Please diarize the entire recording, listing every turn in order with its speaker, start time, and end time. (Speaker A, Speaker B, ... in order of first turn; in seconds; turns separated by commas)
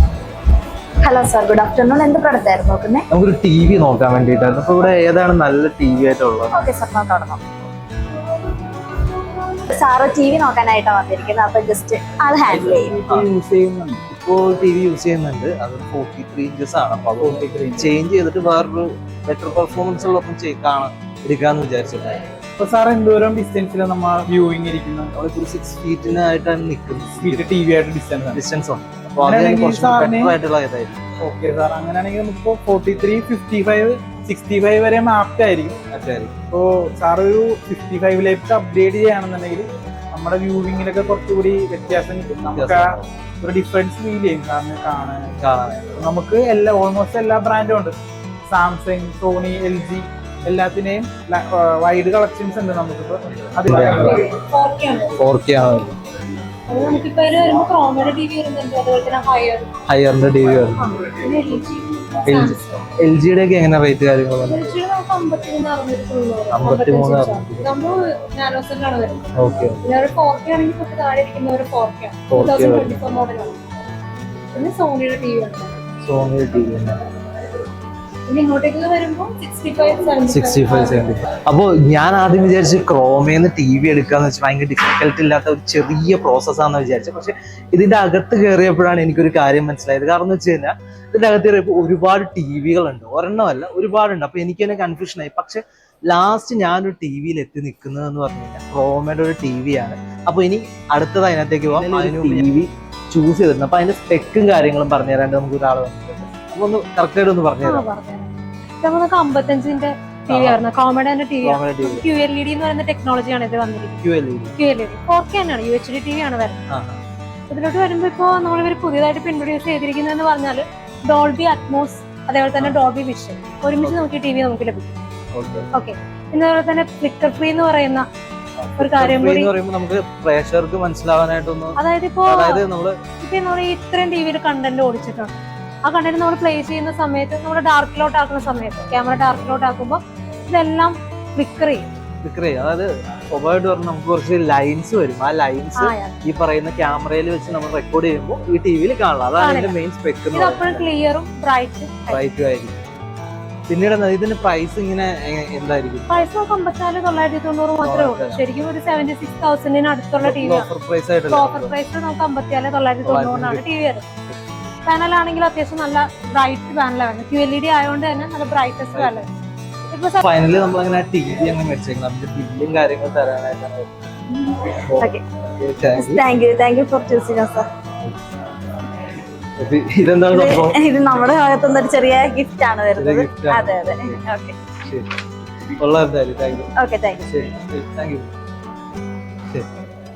Speaker A: 1.0-3.0, Speaker B: 3.1-6.7, Speaker A: 6.5-7.4, Speaker A: 9.7-12.9, Speaker C: 12.6-14.0, Speaker B: 14.1-22.2, Speaker C: 17.2-17.9, Speaker C: 22.6-25.1, Speaker B: 25.1-27.5, Speaker C: 27.2-28.4, Speaker B: 28.3-31.0, Speaker C: 29.2-30.3, Speaker C: 31.2-35.8, Speaker B: 35.9-36.3, Speaker C: 36.5-42.9, Speaker B: 42.4-43.1, Speaker C: 43.4-45.4, Speaker B: 45.4-45.8, Speaker C: 45.9-48.0, Speaker C: 48.5-54.2, Speaker B: 53.6-54.3, Speaker D: 54.1-55.1, Speaker B: 55.2-56.0, Speaker D: 56.7-59.7, Speaker B: 59.9-60.9, Speaker D: 60.8-62.6, Speaker B: 62.2-64.6, Speaker D: 64.4-73.6, Speaker B: 66.5-67.7, Speaker B: 69.3-69.8, Speaker B: 72.3-73.0, Speaker D: 74.5-75.8, Speaker B: 76.0-77.0, Speaker D: 78.3-81.0, Speaker B: 80.3-107.8, Speaker C: 101.8-102.5, Speaker D: 107.6-108.3, Speaker D: 108.8-114.0, Speaker B: 110.3-110.6, Speaker B: 111.4-112.0, Speaker B: 114.0-114.5, Speaker D: 114.5-116.6, Speaker B: 116.7-117.0, Speaker D: 117.5-125.0, Speaker B: 125.3-125.7, Speaker D: 125.7-128.1, Speaker B: 128.6-133.0, Speaker D: 128.8-129.5, Speaker D: 131.8-132.6, Speaker D: 133.2-141.9, Speaker B: 139.1-139.4, Speaker B: 142.2-150.9, Speaker D: 145.8-146.2, Speaker D: 149.4-149.8, Speaker D: 150.3-152.2, Speaker B: 152.1-152.8, Speaker B: 153.7-156.3, Speaker D: 156.1-160.7, Speaker B: 157.8-158.4, Speaker B: 160.2-161.7, Speaker D: 161.3-164.1, Speaker B: 163.0-163.6, Speaker D: 164.8-169.3, Speaker D: 169.9-170.2, Speaker B: 170.2-173.9, Speaker B: 174.8-176.2, Speaker A: 175.0-175.2, Speaker A: 175.9-177.7, Speaker B: 179.6-180.8, Speaker A: 180.3-184.6, Speaker B: 182.9-184.2, Speaker B: 184.8-185.1, Speaker B: 185.7-188.3, Speaker A: 186.8-187.2